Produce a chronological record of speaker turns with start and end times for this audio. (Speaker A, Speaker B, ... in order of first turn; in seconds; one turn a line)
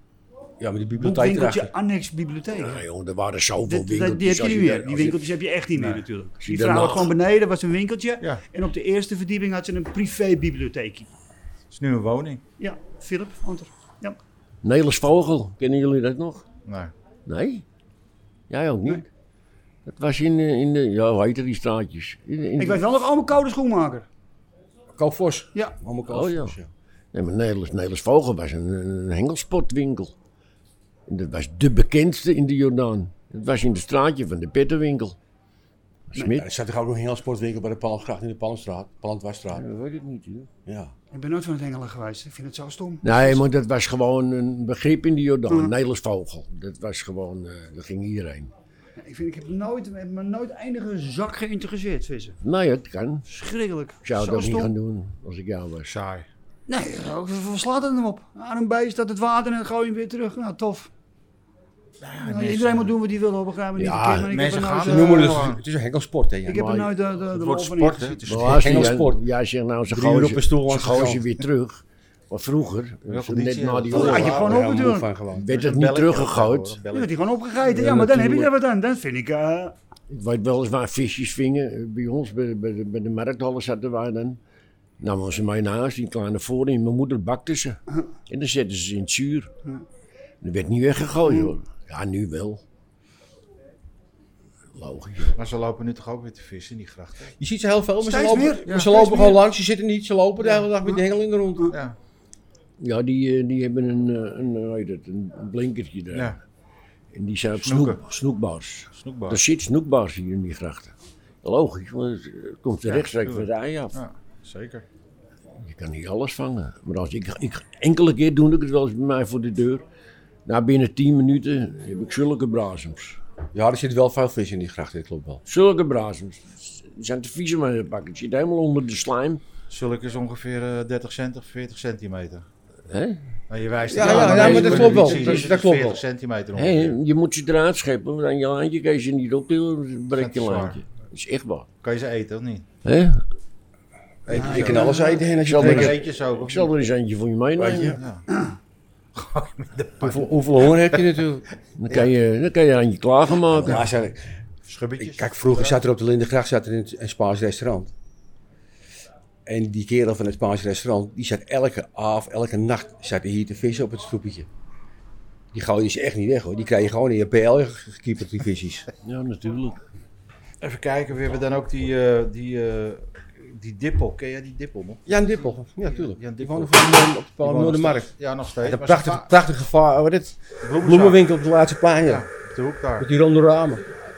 Speaker A: 0.6-1.7
Speaker B: 1.0-2.8
Speaker C: 2.5-5.3
Speaker B: 3.7-11.1
Speaker D: 5.7-6.0
Speaker C: 6.4-7.1
Speaker D: 11.7-12.4
Speaker B: 12.6-14.2
Speaker C: 14.6-16.4
Speaker D: 16.6-16.9
Speaker C: 17.2-17.6
Speaker C: 18.5-19.1
Speaker C: 19.8-22.8
Speaker B: 22.6-24.1
Speaker A: 25.0-26.7
Speaker C: 26.1-26.6
Speaker C: 27.1-30.1
Speaker C: 31.1-35.1
Speaker C: 36.1-36.4
Speaker A: 36.3-39.6
Speaker C: 39.5-40.5
Speaker A: 40.6-40.9
Speaker B: 41.1-43.4
Speaker C: 43.0-48.5
Speaker B: 45.5-45.7
Speaker B: 49.0-52.4
Speaker C: 52.4-53.3
Speaker B: 53.3-54.7
Speaker C: 54.0-55.9
Speaker D: 55.9-56.3
Speaker B: 56.7-60.9
Speaker D: 62.0-62.9
Speaker B: 62.2-65.4
Speaker C: 63.8-64.2
Speaker D: 63.8-65.6
Speaker A: 63.9-64.2
Speaker A: 64.8-66.8
Speaker B: 66.4-68.2
Speaker C: 66.5-66.9
Speaker D: 67.3-68.9
Speaker C: 68.2-74.5
Speaker A: 68.4-69.2
Speaker A: 69.9-71.2
Speaker D: 73.1-77.1
Speaker B: 73.9-75.0
Speaker A: 74.4-75.5
Speaker C: 75.4-76.8
Speaker B: 76.9-79.7
Speaker A: 77.6-78.5
Speaker C: 80.1-84.4
Speaker C: 85.0-89.5
Speaker C: 90.4-92.6
Speaker B: 91.2-91.5
Speaker C: 94.7-95.3
Speaker D: 95.3-97.3
Speaker A: 97.4-101.7
Speaker B: 98.0-99.4
Speaker D: 98.7-98.9
Speaker D: 101.7-102.0
Speaker C: 102.8-106.4
Speaker D: 106.1-106.4
Speaker C: 107.1-114.0
Speaker D: 107.6-108.0
Speaker D: 108.9-109.4
Speaker D: 112.8-114.8
Speaker C: 115.6-119.8
Speaker C: 120.5-123.2
Speaker A: 123.5-125.4
Speaker C: 125.5-129.4
Speaker D: 129.7-132.5
Speaker C: 132.9-133.2
Speaker D: 133.5-137.0
Speaker A: 133.9-136.0
Speaker C: 133.9-135.5
Speaker C: 136.5-141.7
Speaker D: 140.1-140.8
Speaker D: 141.8-142.7
Speaker C: 142.8-143.2
Speaker D: 144.2-146.7
Speaker A: 144.3-145.9
Speaker B: 144.3-145.2
Speaker C: 144.5-148.0
Speaker A: 147.6-148.0
Speaker D: 147.9-148.2
Speaker D: 149.1-151.1
Speaker A: 150.0-151.4
Speaker C: 151.8-153.9
Speaker A: 153.6-154.3
Speaker D: 153.6-153.9
Speaker D: 154.7-155.8
Speaker A: 155.0-157.9
Speaker A: 159.4-164.5
Speaker A: 165.5-168.9
Speaker C: 169.0-169.8
Speaker D: 170.6-179.3
Speaker A: 175.1-178.1
Speaker A: 178.6-182.2
Speaker D: 180.6-181.2
Speaker D: 182.0-183.1
Speaker A: 183.0-183.8